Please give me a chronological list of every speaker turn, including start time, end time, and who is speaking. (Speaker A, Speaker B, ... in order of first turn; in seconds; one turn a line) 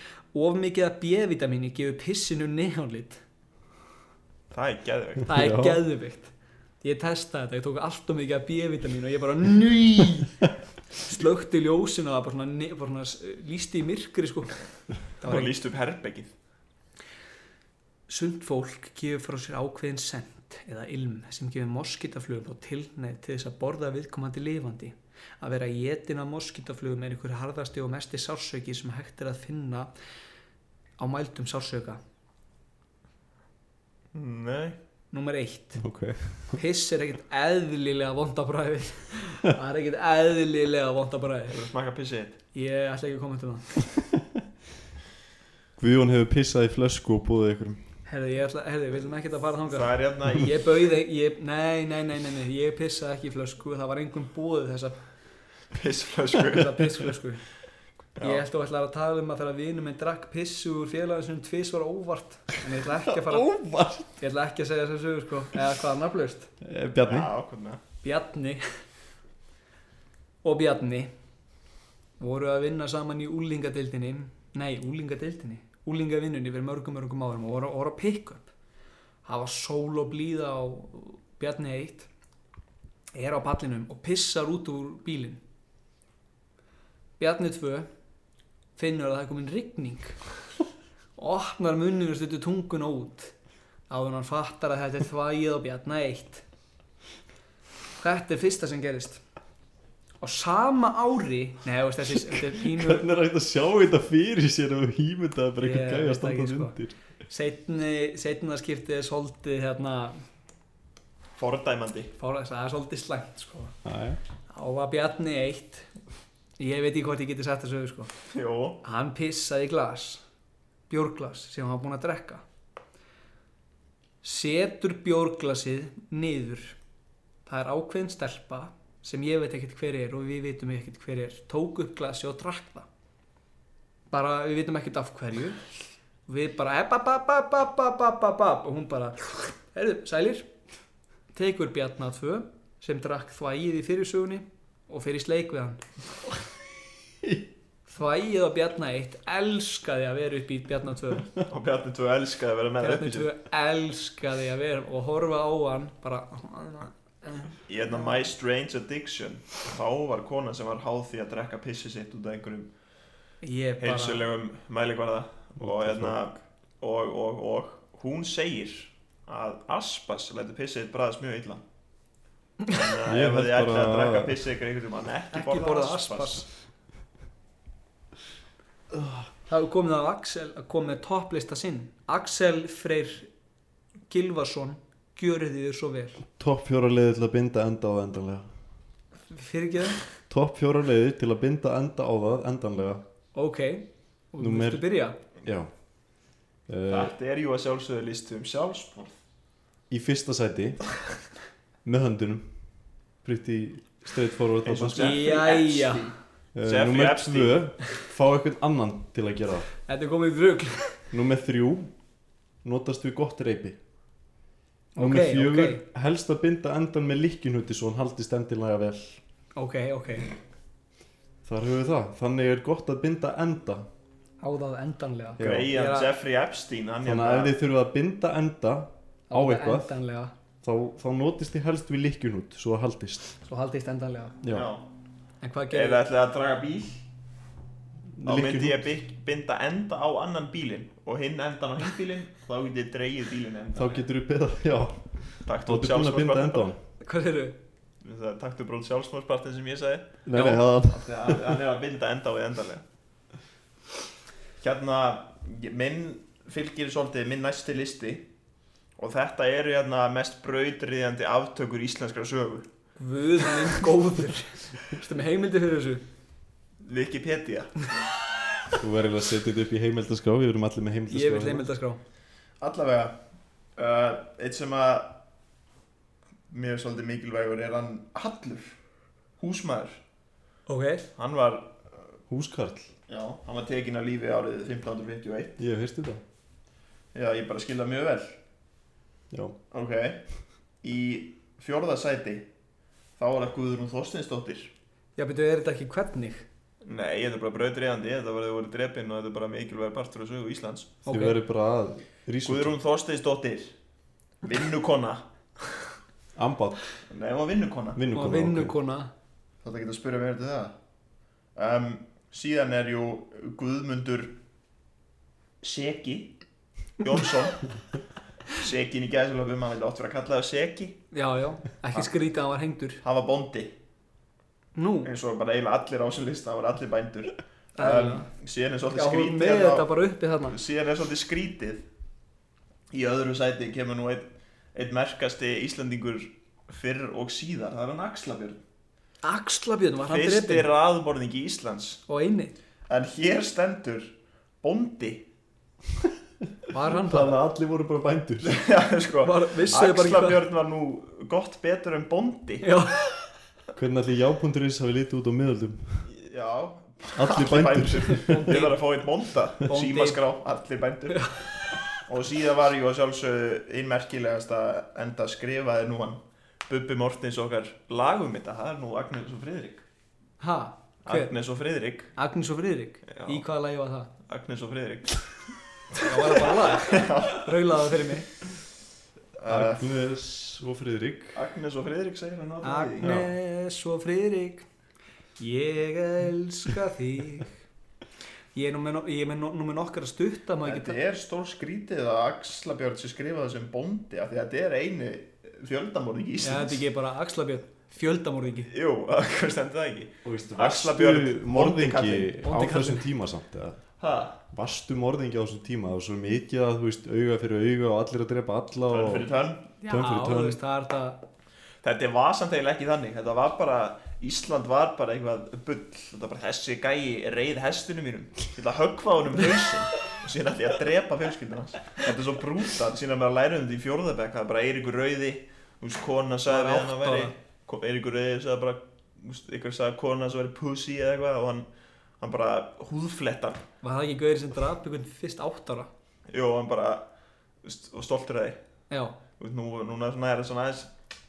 Speaker A: 0.3-3.2
Speaker B: 4.5-5.3
Speaker A: 5.3-10.4
Speaker C: 5.3-5.8
Speaker A: 11.0-15.5
Speaker B: 15.2-16.3
Speaker A: 18.1-29.9
Speaker A: 31.0-32.0
Speaker B: 34.1-34.8
Speaker A: 35.1-41.6
Speaker C: 35.8-36.6
Speaker B: 41.5-42.4
Speaker A: 42.5-43.9
Speaker C: 45.8-48.0
Speaker A: 48.0-55.1
Speaker B: 49.7-50.7
Speaker B: 55.7-56.9
Speaker A: 56.5-57.4
Speaker B: 58.1-58.4
Speaker A: 58.2-63.5
Speaker C: 63.1-64.1
Speaker A: 64.2-66.5
Speaker C: 66.6-67.3
Speaker B: 67.0-67.8
Speaker A: 68.0-68.8
Speaker A: 70.4-71.1
Speaker A: 72.2-78.5
Speaker A: 79.2-82.1
Speaker A: 83.1-85.4
Speaker A: 87.2-87.9
Speaker A: 88.8-90.3
Speaker A: 91.2-93.3
Speaker A: 93.9-96.5
Speaker A: 98.0-99.2
Speaker A: 100.2-103.0
Speaker C: 102.3-106.9
Speaker A: 105.6-110.2
Speaker B: 111.3-112.1
Speaker A: 112.2-113.8
Speaker C: 113.8-114.2
Speaker A: 114.5-115.9
Speaker A: 116.6-118.1
Speaker B: 118.3-118.8
Speaker A: 118.8-120.2
Speaker A: 120.9-122.4
Speaker A: 124.2-126.8
Speaker A: 127.5-132.9
Speaker A: 134.1-135.6
Speaker A: 136.3-140.5
Speaker A: 141.3-145.8
Speaker A: 147.9-151.3
Speaker B: 151.4-153.3
Speaker A: 152.8-158.2
Speaker B: 157.7-162.7
Speaker A: 163.4-164.2
Speaker B: 163.8-171.6
Speaker C: 165.6-166.2
Speaker B: 172.7-176.5
Speaker C: 173.1-174.4
Speaker A: 175.3-176.5
Speaker C: 178.9-179.2
Speaker A: 179.5-183.3
Speaker A: 184.1-186.2
Speaker C: 186.3-188.5
Speaker A: 189.3-190.0
Speaker C: 190.3-193.0
Speaker A: 193.3-195.2
Speaker C: 194.4-195.7
Speaker C: 196.7-197.1
Speaker B: 196.9-199.2
Speaker C: 199.9-200.9
Speaker C: 201.8-202.6
Speaker C: 203.2-205.2
Speaker B: 204.6-207.7
Speaker A: 205.0-206.1
Speaker C: 206.5-209.7
Speaker A: 209.9-211.1
Speaker C: 211.1-211.9
Speaker C: 212.6-213.8
Speaker A: 214.9-215.8
Speaker C: 215.0-219.2
Speaker A: 219.6-220.3
Speaker C: 221.4-223.9
Speaker A: 224.4-226.1
Speaker C: 225.4-225.7
Speaker B: 225.4-227.5
Speaker C: 227.0-230.0
Speaker A: 229.3-230.3
Speaker C: 230.6-233.3
Speaker A: 233.4-234.3
Speaker C: 234.4-234.7
Speaker B: 234.5-234.8
Speaker A: 235.4-236.0
Speaker B: 235.7-237.0
Speaker C: 238.1-238.8
Speaker B: 238.2-244.1
Speaker C: 243.7-246.8
Speaker B: 245.4-246.7
Speaker A: 247.0-247.6
Speaker B: 248.0-252.8
Speaker C: 250.2-251.5
Speaker A: 250.3-250.6
Speaker B: 254.6-258.3
Speaker B: 259.0-262.7
Speaker A: 263.0-266.0
Speaker B: 266.8-268.0
Speaker C: 268.8-271.7
Speaker A: 271.1-272.0
Speaker B: 272.6-273.2
Speaker B: 273.8-275.2
Speaker B: 276.5-278.8
Speaker B: 279.4-280.0
Speaker A: 280.7-281.0
Speaker B: 281.2-281.8
Speaker C: 282.3-282.9
Speaker B: 283.1-285.6
Speaker C: 285.6-286.2
Speaker B: 287.1-288.4
Speaker C: 289.3-289.6
Speaker B: 289.7-290.3
Speaker B: 290.8-292.5
Speaker B: 293.2-294.7
Speaker A: 295.2-296.5
Speaker B: 296.8-301.0
Speaker A: 301.1-301.4
Speaker C: 301.1-302.8
Speaker B: 302.4-303.7
Speaker B: 304.4-305.9
Speaker C: 306.3-306.9
Speaker B: 307.1-308.0
Speaker C: 307.9-308.7
Speaker A: 308.1-309.1
Speaker B: 309.6-310.7
Speaker B: 311.5-314.4
Speaker B: 315.6-316.4
Speaker B: 317.0-317.7
Speaker B: 318.5-321.0
Speaker A: 321.1-323.0
Speaker B: 323.0-323.7
Speaker A: 324.7-325.1
Speaker B: 325.0-329.9
Speaker A: 327.8-328.3
Speaker A: 328.9-330.6
Speaker B: 330.5-331.8
Speaker B: 332.9-338.6
Speaker A: 339.2-340.7
Speaker B: 340.0-342.0
Speaker A: 342.1-342.6
Speaker B: 342.9-345.2
Speaker A: 346.7-347.3
Speaker C: 346.9-348.6
Speaker B: 348.4-352.7
Speaker A: 349.2-350.4
Speaker A: 352.6-353.0
Speaker C: 353.8-356.1
Speaker B: 356.1-369.8
Speaker C: 357.1-358.6
Speaker A: 358.1-358.8
Speaker A: 359.7-360.2
Speaker A: 361.1-361.4
Speaker A: 370.4-371.3
Speaker B: 371.0-372.1
Speaker A: 372.1-374.1
Speaker B: 373.1-373.4
Speaker B: 374.3-375.4
Speaker A: 376.0-378.3
Speaker B: 376.0-377.8
Speaker B: 379.4-379.9
Speaker C: 379.4-381.4
Speaker B: 381.3-383.1
Speaker A: 382.6-384.6
Speaker C: 383.0-383.3
Speaker A: 385.4-387.5
Speaker A: 388.5-391.0
Speaker B: 390.6-396.8
Speaker A: 396.4-398.7
Speaker B: 398.7-402.3
Speaker C: 400.2-403.8
Speaker A: 402.4-403.1
Speaker B: 404.0-404.4
Speaker C: 404.5-410.6
Speaker B: 408.9-409.7
Speaker A: 409.8-411.2
Speaker B: 411.8-431.7
Speaker A: 426.5-427.3
Speaker B: 432.2-433.6
Speaker A: 433.8-435.9
Speaker B: 436.3-437.1
Speaker B: 437.6-438.6
Speaker A: 438.9-439.1
Speaker B: 439.4-440.9